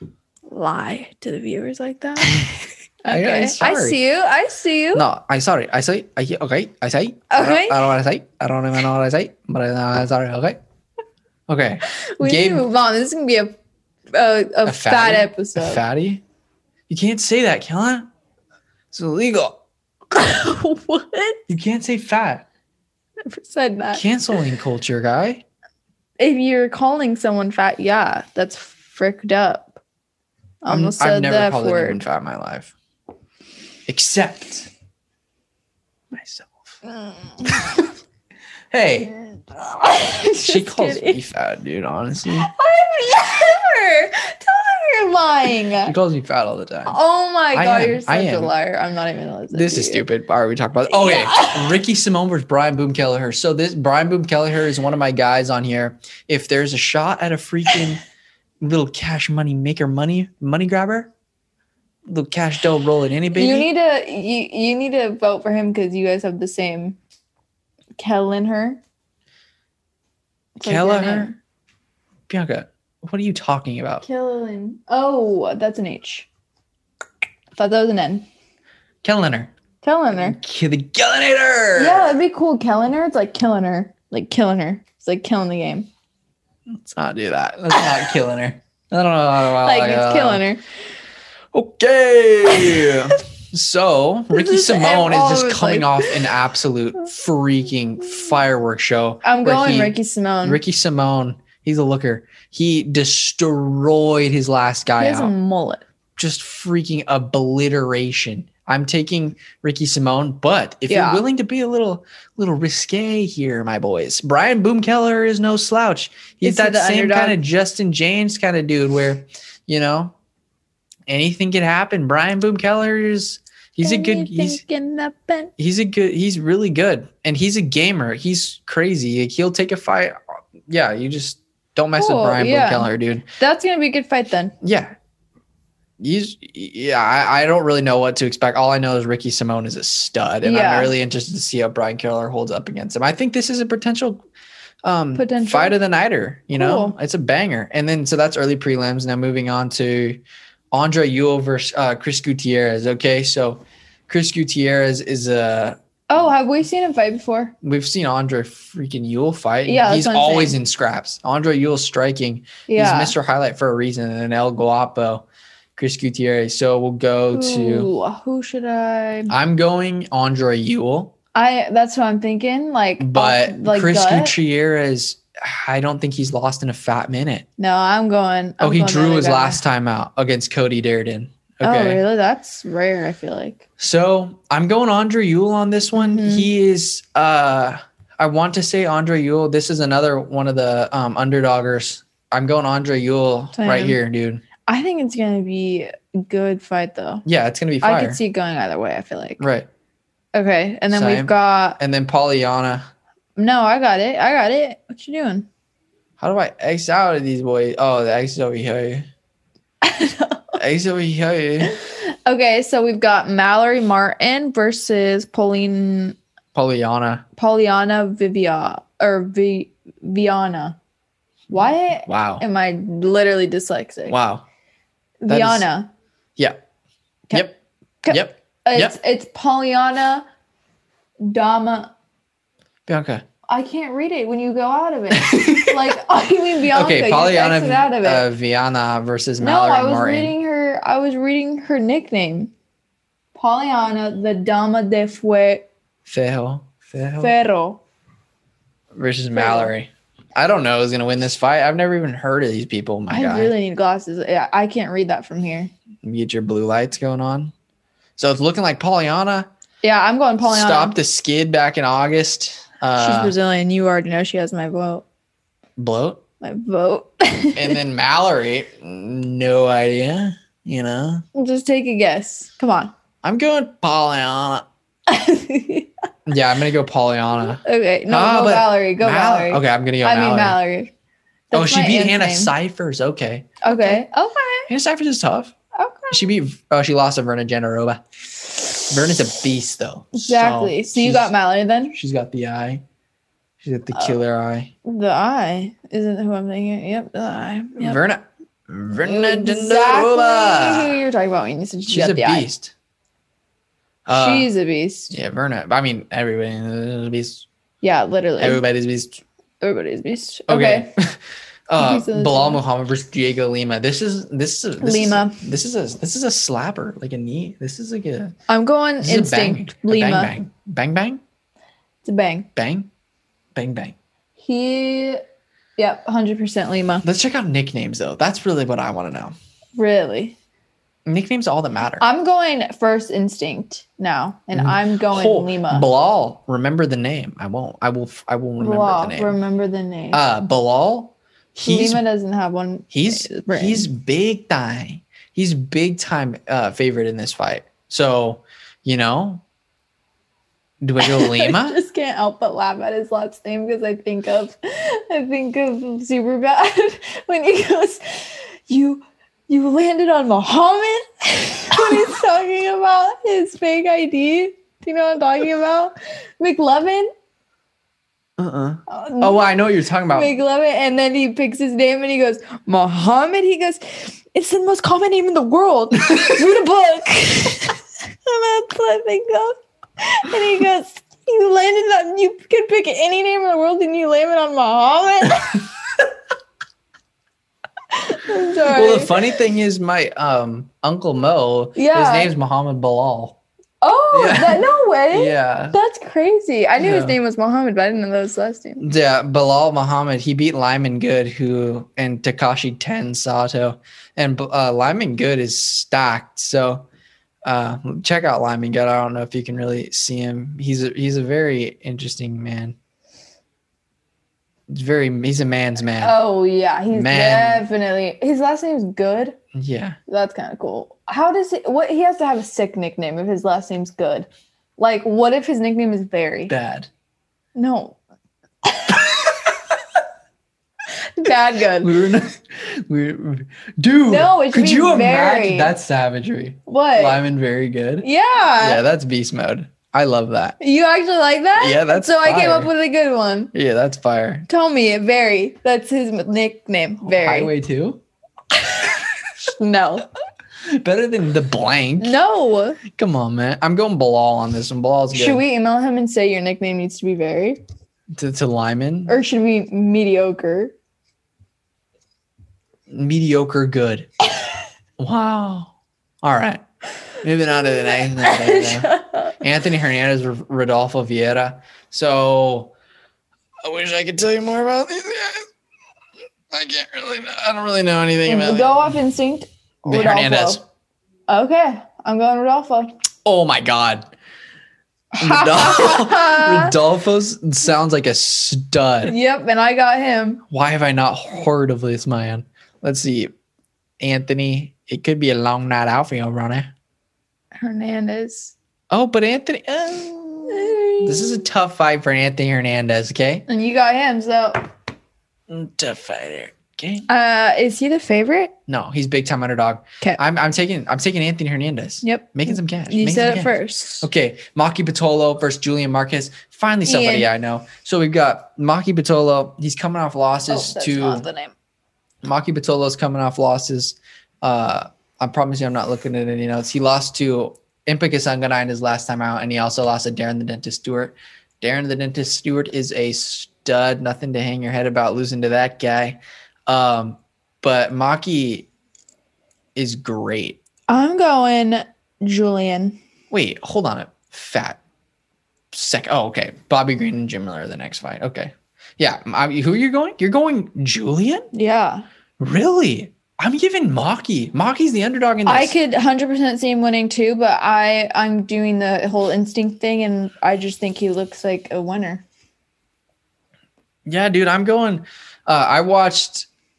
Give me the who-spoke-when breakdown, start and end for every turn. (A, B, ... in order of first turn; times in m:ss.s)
0:00.5-0:02.5 A
0:02.2-0:02.5 B
0:03.0-0:05.0 A
0:03.1-0:04.0 B
0:04.9-0:10.6 B
0:07.3-0:07.9 A
0:11.5-0:12.6 B
0:11.9-0:13.6 A
0:14.1-0:15.8 A
0:14.6-0:16.2 B
0:16.9-0:18.1 B
0:18.9-0:19.6 B
0:20.1-0:21.4 A
0:21.5-0:22.4 B
0:23.2-0:24.0 A
0:23.9-0:25.4 B
0:26.2-0:29.8 A
0:30.6-0:32.0 A
0:30.7-0:32.7 B
0:33.9-0:34.7 B
0:36.1-0:36.8 B
0:36.9-0:37.8 A
0:37.4-0:37.8 B
0:38.7-0:39.1 B
0:39.5-0:41.2 A
0:40.4-0:42.5 B
0:42.4-0:45.9 A
0:45.8-0:47.0 B
0:46.8-0:50.0 A
0:47.5-0:48.5 B
0:49.5-0:58.0 B
0:50.9-0:51.8 A
0:58.6-1:01.1 B
1:02.1-1:03.7 B
1:03.3-1:07.0 A
1:08.0-1:08.8 A
1:10.6-1:11.4 A
1:10.6-1:11.3 B
1:12.3-1:14.0 B
1:14.0-1:16.3 A
1:17.5-1:18.2 A
1:19.0-1:19.5 B
1:19.8-1:20.4 A
1:20.1-1:22.2 B
1:21.7-1:25.9 A
1:26.7-1:30.4 B
1:29.6-1:30.6 A
1:31.5-1:45.3 B
1:32.6-1:33.0 A
1:34.3-1:36.3 A
1:39.2-1:40.6 A
1:45.0-1:45.8 A
1:46.2-2:00.1 B
1:50.9-1:51.2 A
1:56.4-1:57.4 A
2:01.1-2:04.6 B
2:03.8-2:05.5 A
2:05.6-2:10.2 B
2:10.7-2:13.2 B
2:12.0-2:14.5 A
2:14.6-2:14.9 B
2:16.0-2:24.2 B
2:20.4-2:20.9 A
2:24.8-2:30.2 B
2:25.1-2:25.8 A
2:26.5-2:27.0 A
2:30.7-2:35.8 B
2:36.1-2:37.5 A
2:37.6-2:47.9 B
2:39.6-2:40.6 A
2:42.7-2:43.2 A
2:47.3-2:49.3 A
2:49.3-2:51.1 B
2:51.3-2:54.4 A
2:53.0-2:57.4 B
2:57.6-2:59.6 A
2:58.6-3:02.0 B
3:01.6-3:03.6 A
3:03.8-3:14.4 B
3:05.9-3:06.5 A
3:13.5-3:14.0 A
3:14.7-3:17.2 A
3:17.2-3:18.2 B
3:17.8-3:19.5 A
3:19.4-3:19.7 B
3:20.3-3:21.8 A
3:20.9-3:22.8 B
3:23.4-3:25.5 A
3:26.2-3:29.0 B
3:29.8-3:30.6 A
3:30.6-3:31.7 B
3:31.6-3:36.2 A
3:36.5-3:37.2 B
3:37.4-3:40.8 A
3:41.5-3:44.2 A
3:41.6-3:42.4 B
3:44.1-3:44.4 B
3:45.2-3:45.9 A
3:45.3-3:45.7 B
3:48.0-3:50.2 A
3:48.1-3:49.0 B
3:51.2-3:51.9 A
3:52.9-3:53.2 B
3:53.5-3:58.2 A
3:55.1-3:56.0 B
3:56.7-4:00.3 B
3:59.4-4:02.5 A
4:03.3-4:05.7 A
4:06.0-4:07.3 B
4:07.2-4:07.8 A
4:08.9-4:13.5 B
4:09.3-4:09.7 A
4:13.1-4:15.7 A
4:16.0-4:17.5 B
4:18.2-4:19.5 B
4:19.8-4:21.0 A
4:20.4-4:23.3 B
4:23.0-4:25.0 A
4:25.8-4:26.2 B
4:26.4-4:27.8 A
4:27.6-4:31.2 B
4:31.3-4:32.9 A
4:33.2-4:34.6 B
4:35.1-4:35.9 A
4:36.2-4:40.6 B
4:37.6-4:40.9 A
4:41.5-4:42.5 A
4:41.5-4:44.0 B
4:43.6-4:44.7 A
4:44.7-4:45.5 B
4:45.7-4:46.3 A
4:46.1-4:48.0 B
4:48.8-4:51.3 B
4:50.1-4:52.0 A
4:51.9-4:52.8 B
4:53.6-4:54.7 B
4:54.8-4:58.0 A
4:57.8-5:01.0 B
4:59.0-5:02.5 A
5:01.9-5:02.7 B
5:04.0-5:04.5 B
5:04.1-5:05.2 A
5:05.1-5:07.5 B
5:07.8-5:08.6 A
5:08.4-5:09.2 B
5:09.6-5:10.9 A
5:10.5-5:18.3 B
5:11.8-5:12.6 A
5:14.8-5:15.4 A
5:18.5-5:20.3 A
5:19.0-5:21.2 B
5:22.0-5:22.5 A
5:22.6-5:22.9 B
5:23.5-5:23.9 B
5:24.4-5:25.2 A
5:25.8-5:27.0 A
5:27.0-5:29.3 B
5:29.8-5:30.4 A
5:31.0-5:32.0 B
5:32.0-5:35.9 A
5:34.5-5:39.4 B
5:38.6-5:40.2 A
5:40.1-5:42.0 B
5:41.6-5:43.9 A
5:42.9-5:49.4 B
5:50.8-5:51.8 B
5:51.0-6:07.1 A
6:08.4-6:10.3 B
6:08.9-6:09.4 A
6:10.1-6:25.7 A
6:27.9-6:29.2 A
6:28.7-6:33.4 B
6:31.7-6:32.3 A
6:33.8-6:38.8 A
6:34.1-6:35.8 B
6:36.8-6:37.2 B
6:38.8-6:46.8 B
6:47.4-6:52.8 B
6:54.7-6:56.2 B
6:56.0-6:59.4 A
6:56.9-6:57.6 B
6:59.5-7:00.0 B
7:00.1-7:06.5 A
7:06.5-7:06.9 B
7:07.5-7:08.0 A
7:08.6-7:09.3 A
7:09.1-7:09.4 B
7:11.2-7:12.0 A
7:11.8-7:18.0 B
7:14.1-7:15.7 A
7:16.6-7:17.2 A
7:18.0-7:18.8 A
7:18.6-7:20.6 B
7:20.6-7:23.5 A
7:21.6-7:22.7 B
7:23.5-7:24.4 B
7:24.5-7:27.5 A
7:27.0-7:28.0 B
7:28.6-7:28.9 A
7:29.4-7:30.1 A
7:30.6-7:32.2 B
7:32.0-7:32.8 A
7:32.9-7:35.4 B
7:35.1-7:37.6 A
7:38.2-7:39.2 B
7:39.1-7:40.7 A
7:42.9-7:44.1 B
7:45.0-7:46.6 B
7:47.2-7:52.7 B
7:47.6-7:49.4 A
7:53.6-7:55.5 B
7:56.5-7:58.8 B
7:58.2-8:00.6 A
7:59.8-8:00.6 B
8:01.3-8:02.9 A
8:03.2-8:04.1 B
8:05.1-8:06.8 A
8:05.2-8:09.1 B
8:09.0-8:10.4 A
8:10.5-8:13.3 B
8:14.0-8:16.7 B
8:17.5-8:18.5 A
8:18.9-8:23.4 B
8:20.5-8:21.4 A
8:23.5-8:24.6 A
8:25.5-8:27.0 B
8:27.1-8:28.5 A
8:28.7-8:41.2 B
8:32.0-8:34.1 A
8:36.8-8:37.3 A
8:40.5-8:41.5 A
8:42.2-8:58.7 B
8:59.8-9:00.6 B
9:00.9-9:03.0 A
9:03.3-9:04.8 B
9:05.7-9:11.5 B
9:11.5-9:12.0 A
9:12.4-9:15.7 B
9:15.4-9:22.2 A
9:24.0-9:26.5 B